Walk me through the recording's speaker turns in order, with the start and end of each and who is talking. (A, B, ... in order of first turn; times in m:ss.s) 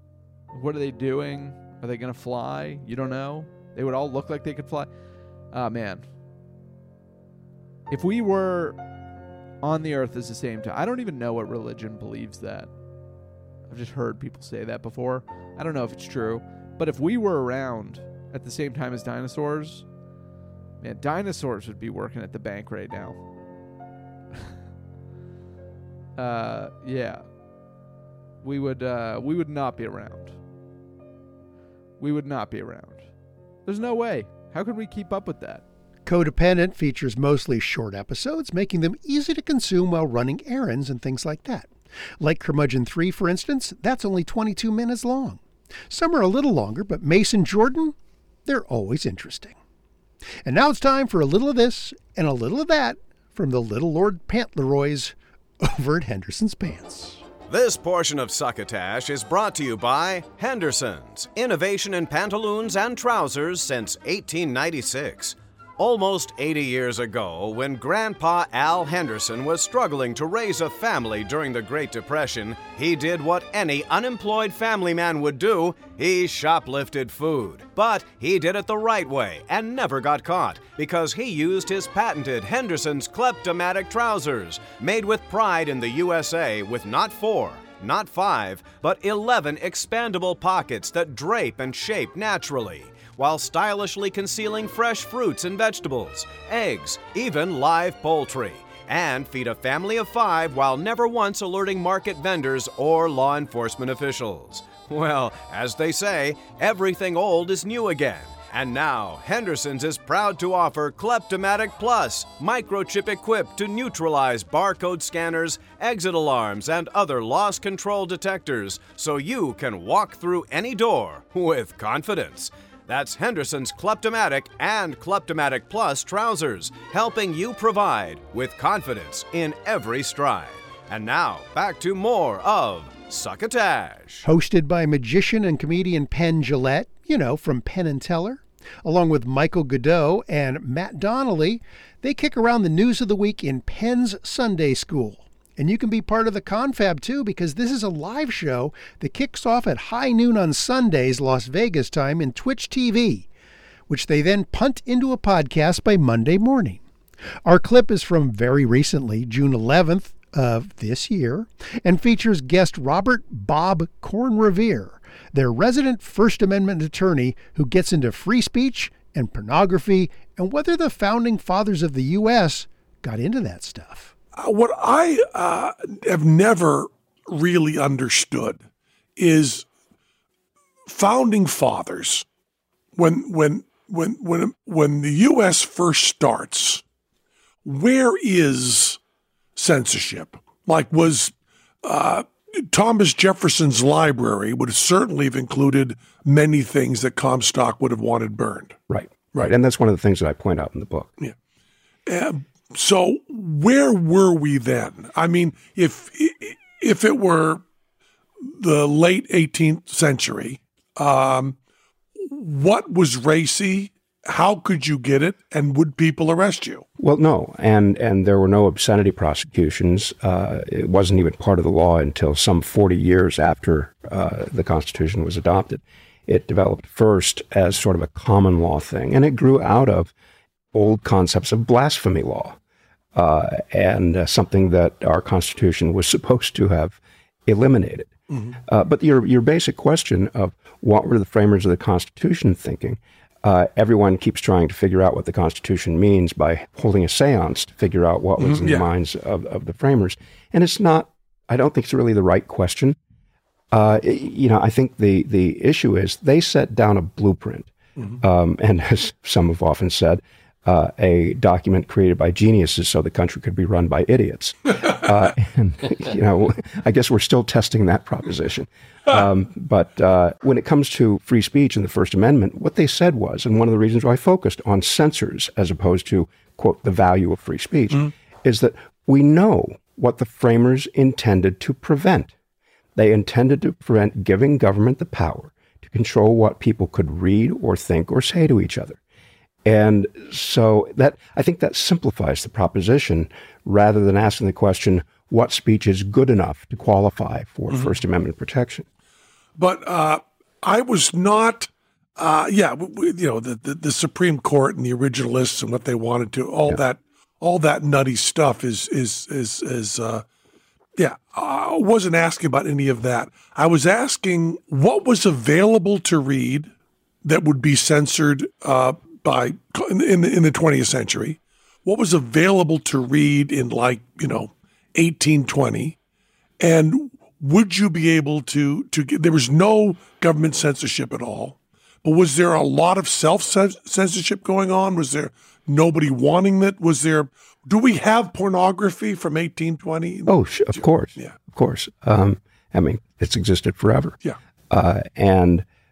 0:00.5-0:04.9 A
0:05.5-0:06.0 A
0:07.9-0:08.8 A
0:09.6-0:12.7 A
0:13.7-0:19.9 A
0:20.8-0:23.2 A
0:26.2-0:27.4 A
0:28.4-0:30.4 A
0:32.0-0:35.6 A
0:36.0-0:47.9 B
0:48.4-0:49.6 B
0:50.4-0:57.2 B
0:57.5-2:14.2 C
2:14.2-2:33.3 B
2:33.9-2:36.8 B
2:37.4-2:54.1 B
2:54.4-2:58.6 D
2:59.2-2:59.6 D
3:00.9-3:02.2 D
3:03.0-3:06.8 D
3:07.6-3:09.0 D
3:09.6-3:18.8 D
3:18.9-3:21.1 E
3:22.1-3:27.6 D
3:28.4-3:31.6 D
3:32.2-3:36.8 D
3:37.0-3:50.1 E
3:50.7-3:52.6 E
3:53.1-3:58.1 E
3:58.3-3:58.6 D
3:58.6-4:13.0 E
4:08.4-4:08.9 D
4:13.7-4:42.3 E
4:43.0-4:49.0 E
4:49.6-4:58.8 E
4:59.6-5:10.2 D
5:11.0-5:16.7 D
5:17.2-5:26.0 D
5:26.6-5:41.3 D
5:40.3-5:44.2 E
5:44.7-5:45.6 E